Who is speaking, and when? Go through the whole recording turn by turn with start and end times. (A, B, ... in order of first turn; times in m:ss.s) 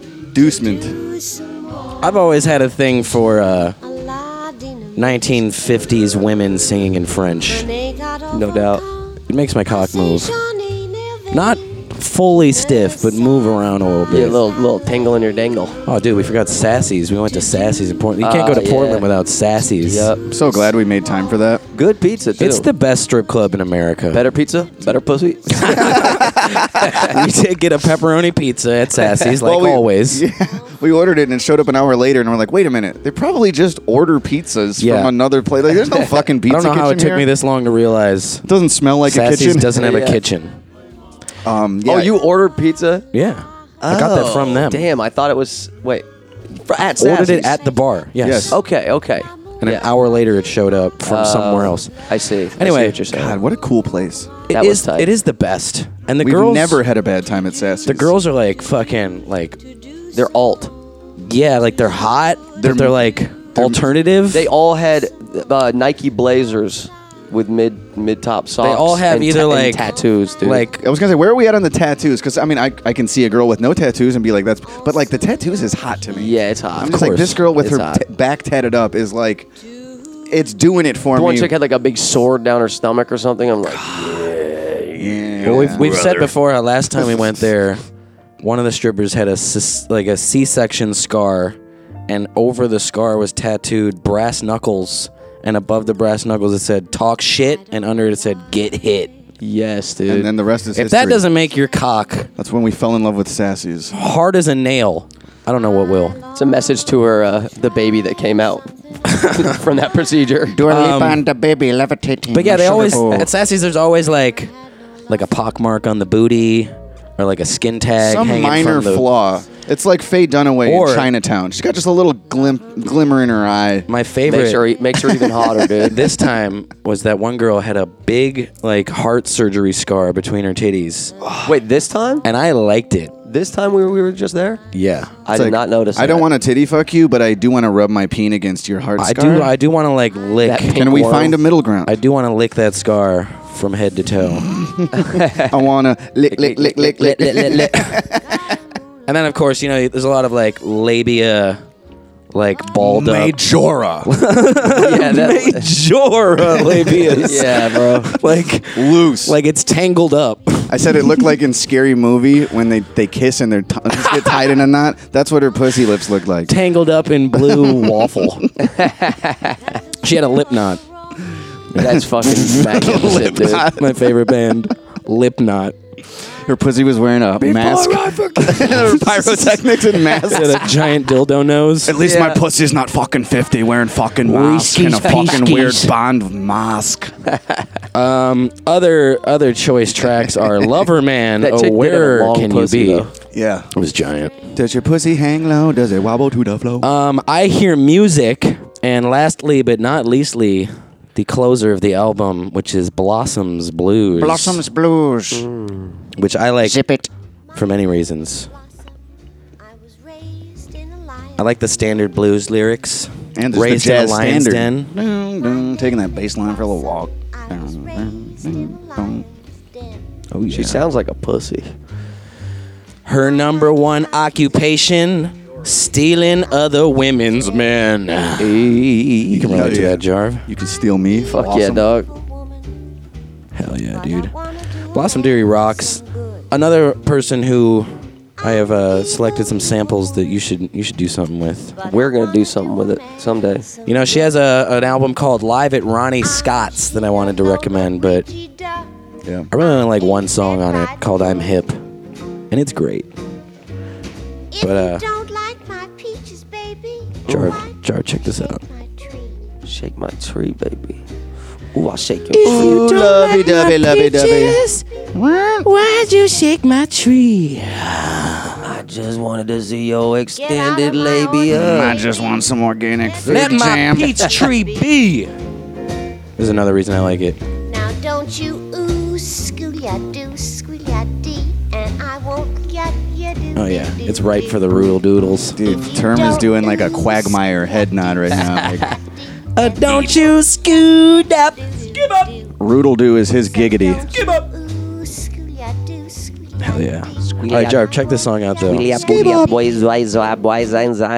0:00.3-0:01.0 A
0:00.4-0:02.6 B
0:02.0-0:03.8 C
0:03.8-0:06.4 B
0:05.0-0:07.7 C
0:07.4-0:18.2 B
0:08.3-0:08.8 D
0:09.3-0:10.4 C
0:11.3-0:14.4 C
0:14.1-0:15.8 D
0:15.8-0:20.1 C
0:18.2-0:19.1 D
0:19.4-0:21.6 B
0:19.8-0:20.3 D
0:20.3-0:21.6 A
0:21.7-0:22.7 D
0:22.4-0:24.2 C
0:24.1-0:26.0 D
0:25.5-0:30.2 C
0:25.7-0:26.3 A
0:26.2-0:26.6 B
0:29.4-0:37.3 A
0:34.8-0:35.1 C
0:35.9-0:36.2 D
0:36.5-0:38.4 C
0:38.4-0:39.8 A
0:39.0-0:40.6 C
0:39.7-0:40.2 D
0:41.4-0:42.1 A
0:41.8-0:43.0 D
0:43.1-0:44.8 C
0:43.8-0:46.0 D
0:46.6-0:47.6 D
0:47.0-0:48.6 C
0:48.2-0:48.6 A
0:48.5-0:49.9 D
0:49.6-0:51.9 C
0:51.0-0:53.4 D
0:52.6-0:53.0 C
0:53.1-0:54.3 A
0:54.5-0:55.1 D
0:54.5-0:56.8 C
0:56.2-0:58.1 A
0:57.8-0:59.6 C
0:59.6-1:00.6 B
1:00.1-1:00.7 D
1:01.2-1:04.5 C
1:01.7-1:02.2 B
1:02.6-1:03.8 A
1:04.3-1:10.6 D
1:08.6-1:10.8 C
1:10.7-1:19.5 A
1:14.7-1:15.5 B
1:16.1-1:18.0 D
1:16.8-1:17.4 C
1:20.3-1:21.5 A
1:21.1-1:26.2 D
1:24.9-1:26.2 A
1:25.4-1:27.8 C
1:28.4-1:31.6 C
1:32.1-1:39.1 C
1:37.4-1:39.1 B
1:39.4-1:40.3 D
1:40.1-1:41.3 A
1:40.7-1:42.3 C
1:42.4-1:43.9 A
1:43.9-1:46.2 C
1:46.1-1:46.7 B
1:46.3-1:50.6 D
1:49.0-1:49.5 C
1:50.5-1:53.3 E
1:50.6-1:51.2 C
1:52.3-1:54.5 C
1:55.1-1:59.1 C
1:58.0-2:03.9 A
2:00.6-2:01.1 C
2:03.9-2:04.7 C
2:04.3-2:06.0 D
2:05.8-2:11.1 C
2:11.2-2:11.6 A
2:11.4-2:12.2 D
2:12.2-2:13.1 C
2:13.2-2:14.6 D
2:14.7-2:15.2 C
2:15.2-2:16.3 D
2:15.3-2:19.5 A
2:19.0-2:20.9 C
2:20.4-2:21.4 D
2:20.7-2:21.9 A
2:21.8-2:24.5 C
2:24.2-2:28.5 A
2:25.0-2:25.5 D
2:26.3-2:27.4 D
2:27.0-2:28.0 C
2:29.1-2:31.6 C
2:32.3-2:33.4 C
2:32.7-2:34.1 A
2:34.0-2:41.3 C
2:34.7-2:35.7 D
2:36.9-2:38.2 D
2:38.6-2:39.4 A
2:40.7-2:46.5 A
2:46.5-2:48.4 C
2:47.4-2:48.3 A
2:48.8-2:49.5 D
2:49.7-2:51.1 B
2:50.0-2:50.8 C
2:51.8-2:53.7 D
2:51.9-2:55.8 C
2:52.3-2:54.0 A
2:56.4-3:00.7 A
2:57.4-3:02.0 C
3:01.8-3:07.1 A
3:02.0-3:02.4 D
3:04.2-3:05.9 C
3:07.9-3:13.1 C
3:11.4-3:13.1 D
3:13.3-3:13.7 A
3:13.7-3:14.5 C
3:14.5-3:16.9 A
3:16.8-3:24.6 C
3:24.2-3:25.4 E
3:25.3-3:26.0 D
3:26.2-3:26.8 C
3:26.6-3:27.1 E
3:27.5-3:28.9 B
3:27.5-3:28.5 C
3:29.6-3:32.3 B
3:31.4-3:34.9 C
3:33.4-3:39.2 A
3:35.4-3:40.2 B
3:40.3-3:40.8 C
3:40.5-3:41.7 D
3:43.0-3:48.6 C
3:43.1-3:45.1 B
3:45.7-3:47.8 B
3:48.4-3:49.8 D
3:49.3-3:50.5 C
3:49.3-3:51.9 A
3:51.3-3:52.1 D
3:51.8-3:52.9 B
3:53.5-3:54.3 C
3:53.8-3:56.6 B
3:54.9-4:01.8 C
3:58.4-4:00.4 B
4:01.7-4:05.1 B
4:01.8-4:03.7 D
4:03.8-4:08.2 C
4:06.2-4:08.9 B
4:09.5-4:11.8 C
4:09.5-4:11.7 B
4:12.5-4:13.1 C
4:14.5-4:19.5 B
4:14.6-4:15.0 C
4:17.3-4:18.6 C
4:17.3-4:17.5 D
4:19.6-4:21.0 D
4:21.7-4:22.8 D
4:22.3-4:24.8 C
4:22.4-4:24.6 A
4:25.1-4:25.6 A
4:25.6-4:28.6 C
4:28.6-4:32.0 D
4:30.3-4:34.9 B
4:31.5-4:34.2 A
4:33.2-4:35.3 C
4:36.4-4:37.4 C
4:37.6-4:45.0 B
4:43.5-4:45.6 C
4:45.5-5:00.8 B
4:45.5-4:48.9 A
4:49.5-4:52.3 C
4:52.6-4:54.1 A
4:54.1-4:54.4 C
4:56.6-4:59.0 C
4:58.9-4:59.5 A